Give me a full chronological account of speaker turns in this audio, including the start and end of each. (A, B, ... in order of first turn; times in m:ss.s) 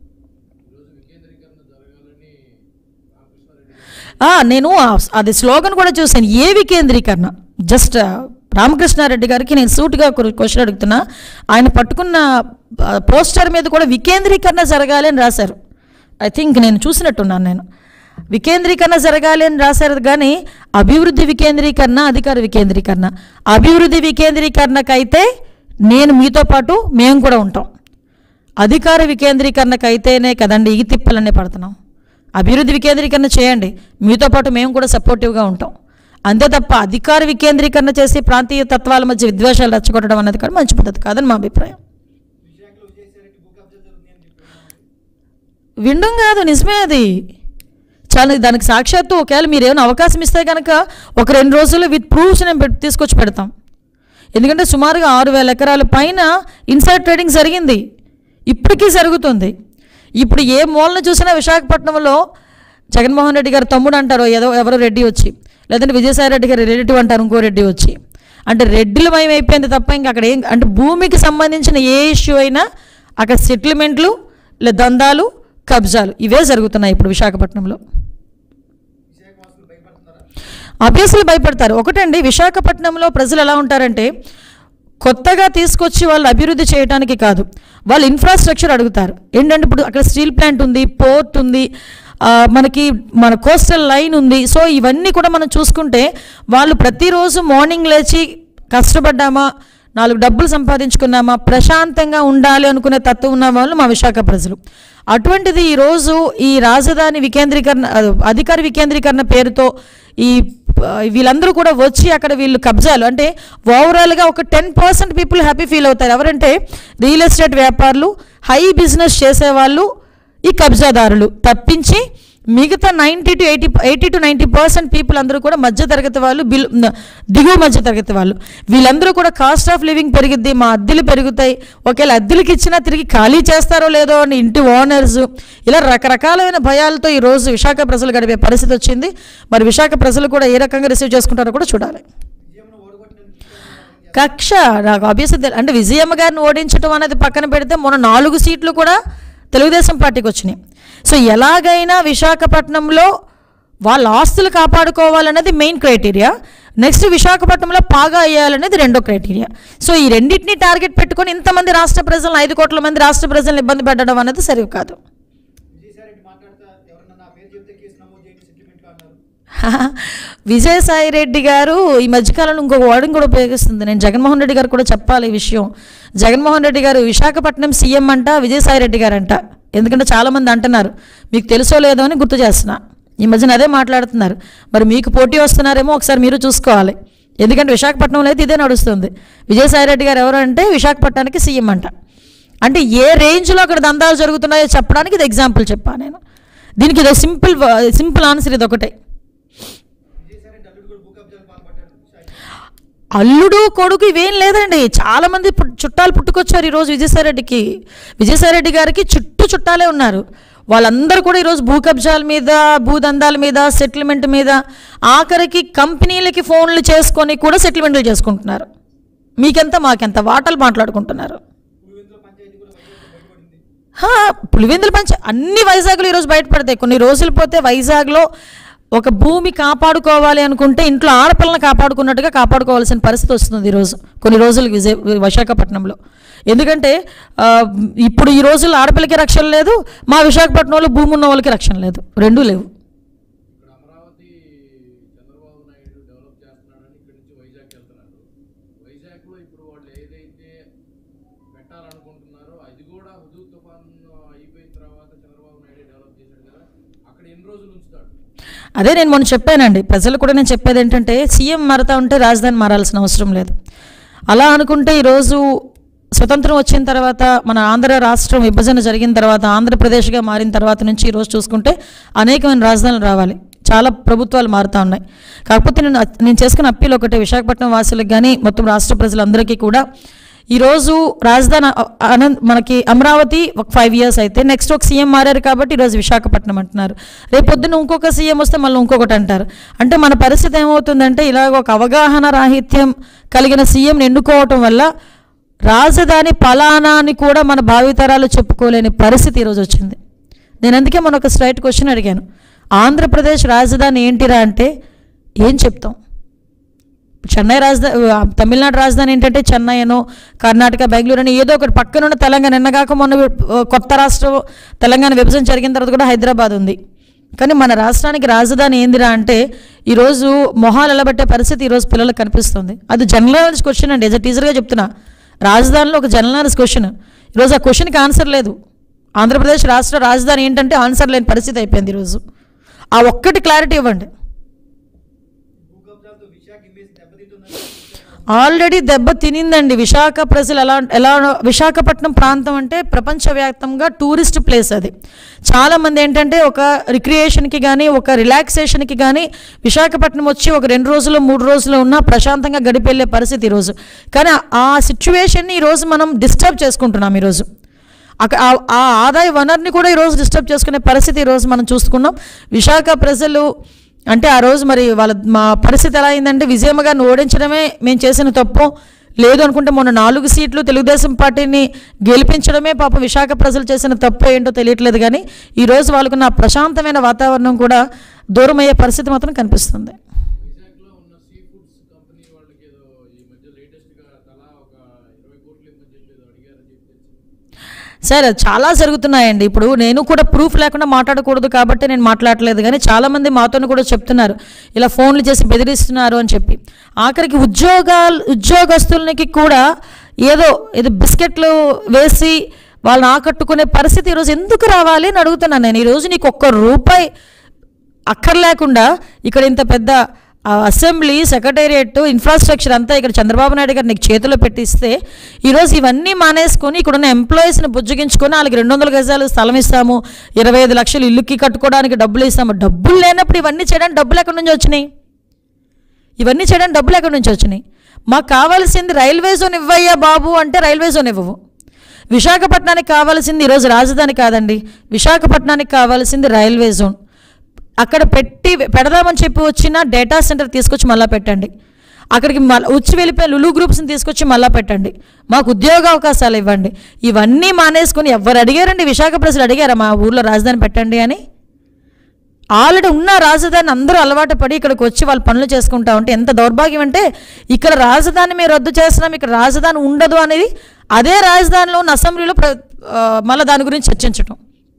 0:00.7-0:02.4 A
0:03.1-0:04.2 A
0:04.2-0:11.0 B
0:11.5-0:15.6 B
0:16.2-0:17.6 B
0:18.3-0:25.3 B
0:25.9-0:27.7 B
0:28.6-0:31.8 B
0:32.4-0:35.7 B
0:36.3-0:41.8 B
0:42.4-0:44.8 C
0:45.8-0:47.1 B
0:48.1-0:53.5 B
0:54.4-0:57.8 B
0:58.5-0:59.5 B
1:00.2-1:02.2 B
1:03.0-1:08.0 B
1:08.5-1:12.6 B
1:13.2-1:14.1 B
1:14.6-1:17.8 B
1:19.1-1:20.3 C
1:20.8-1:24.1 B
1:25.0-1:31.7 B
1:32.2-1:44.6 B
1:45.1-1:59.9 B
2:00.5-2:02.0 B
2:02.6-2:22.0 B
2:22.4-2:24.4 C
2:24.2-2:29.0 B
2:29.5-2:33.1 B
2:33.9-2:45.0 B
2:45.7-2:49.2 C
2:49.6-3:11.9 B
3:12.6-3:16.2 B
3:16.8-3:18.9 B
3:20.2-3:22.5 C
3:23.2-3:27.6 B
3:28.2-3:34.6 B
3:35.1-3:38.7 B
3:39.4-3:41.4 B
3:41.8-3:43.6 C
3:44.0-3:48.3 B
3:49.0-3:56.0 B
3:56.5-4:02.7 B
4:03.5-4:08.2 A
4:08.8-4:10.6 A
4:11.5-4:18.2 A
4:18.8-4:23.6 B
4:24.3-4:25.5 B
4:26.2-4:39.8 B
4:40.5-4:54.9 B
4:55.7-5:00.0 B
5:00.6-5:02.2 B
5:02.8-5:04.7 B
5:05.4-5:06.0 B
5:07.3-5:16.8 B
5:17.4-5:24.9 B
5:25.5-5:28.6 B
5:29.2-5:32.2 B
5:33.0-5:34.1 B
5:35.6-5:38.5 C
5:38.3-5:44.9 B
5:45.5-5:57.5 B
5:58.2-6:03.5 B
6:04.1-6:17.8 B
6:18.4-6:20.0 B
6:20.4-6:27.2 A
6:28.1-6:39.6 B
6:40.2-6:47.1 B
6:48.1-7:04.9 B
7:06.2-7:11.4 B
7:12.1-7:17.0 B
7:17.8-7:21.5 B
7:22.2-7:31.2 B
7:32.6-7:44.4 B